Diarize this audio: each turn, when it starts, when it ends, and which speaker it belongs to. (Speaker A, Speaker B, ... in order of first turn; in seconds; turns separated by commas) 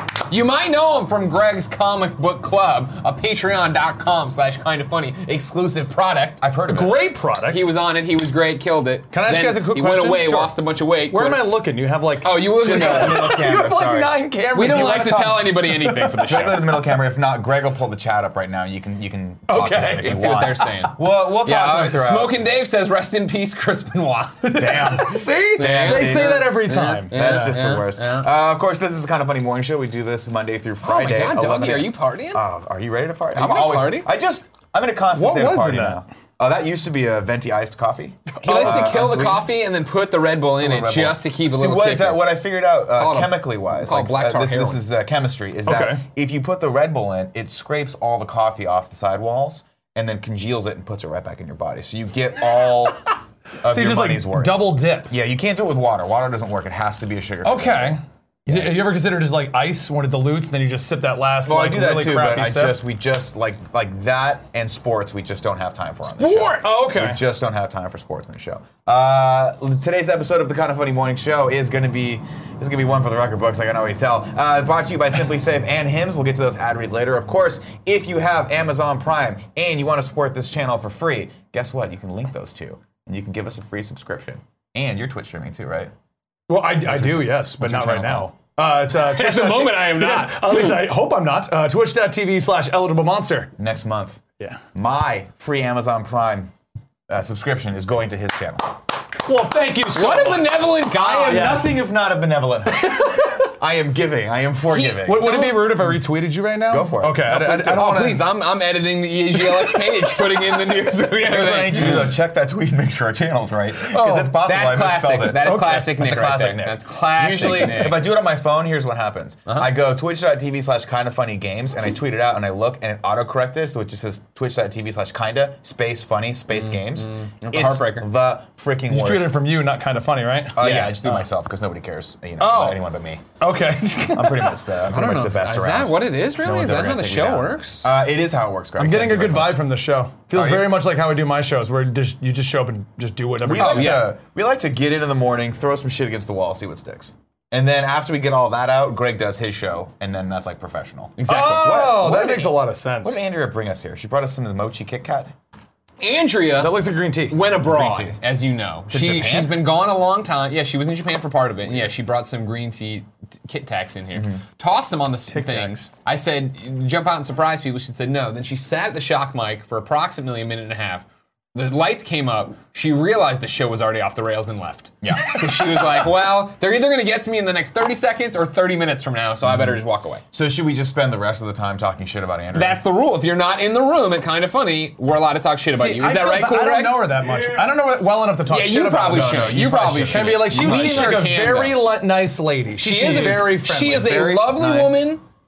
Speaker A: 0.3-6.4, Speaker B: 6.4-7.0, Speaker C: 6.7-7.7, Speaker A: 7.5-11.5, Speaker C: 9.1-16.5, Speaker A: 12.2-13.4, Speaker B: 12.6-15.5, Speaker A: 14.5-16.6, Speaker B: 16.2-22.5, Speaker C: 19.5-20.7, Speaker A: 20.0-28.3, Speaker C: 24.4-27.6, Speaker B: 24.6-39.5, Speaker A: 30.8-32.4, Speaker A: 33.4-34.1, Speaker C: 35.1-36.0, Speaker A: 38.4-42.3, Speaker C: 38.5-38.8, Speaker B: 40.6-53.1, Speaker A: 42.9-44.8, Speaker C: 45.6-46.0, Speaker B: 53.6-58.9, Speaker C: 53.6-55.1, Speaker C: 57.4-62.8, Speaker B: 61.4-85.9, Speaker A: 66.1-67.0, Speaker C: 66.6-67.2, Speaker C: 86.5-93.5, Speaker B: 86.8-88.3, Speaker A: 88.9-90.9, Speaker B: 93.6-94.2, Speaker B: 94.7-96.5, Speaker B: 97.1-98.8, Speaker C: 99.2-100.7, Speaker A: 99.9-101.6, Speaker B: 100.9-105.5, Speaker C: 101.2-101.8, Speaker A: 104.7-105.9, Speaker C: 105.0-108.3, Speaker B: 106.7-107.8, Speaker A: 107.5-112.1, Speaker C: 109.3-110.1, Speaker B: 111.2-129.4, Speaker C: 113.9-114.4, Speaker A: 114.4-118.0, Speaker C: 115.4-116.0, Speaker C: 117.5-117.9, Speaker A: 119.5-119.7, Speaker A: 126.5-128.1, Speaker C: 128.9-131.2, Speaker B: 130.5-133.2, Speaker A: 130.6-130.9, Speaker C: 132.4-132.8, Speaker C: 133.4-134.7, Speaker B: 134.1-139.6, Speaker A: 134.9-137.9, Speaker C: 138.8-144.1, Speaker B: 140.3-140.8, Speaker B: 143.4-155.3, Speaker A: 143.5-144.1, Speaker A: 151.2-151.8, Speaker C: 151.3-153.2, Speaker A: 156.0-180.2, Speaker C: 156.6-157.4, Speaker B: 157.5-158.2, Speaker B: 158.9-159.7, Speaker B: 164.1-164.4, Speaker C: 165.2-165.8, Speaker B: 175.0-175.3, Speaker B: 179.4-179.8, Speaker B: 180.3-182.8, Speaker A: 182.5-187.6, Speaker C: 185.7-189.5, Speaker A: 188.5-191.8, Speaker B: 189.0-191.2, Speaker C: 190.1-194.1, Speaker A: 192.8-195.2, Speaker B: 193.0-195.1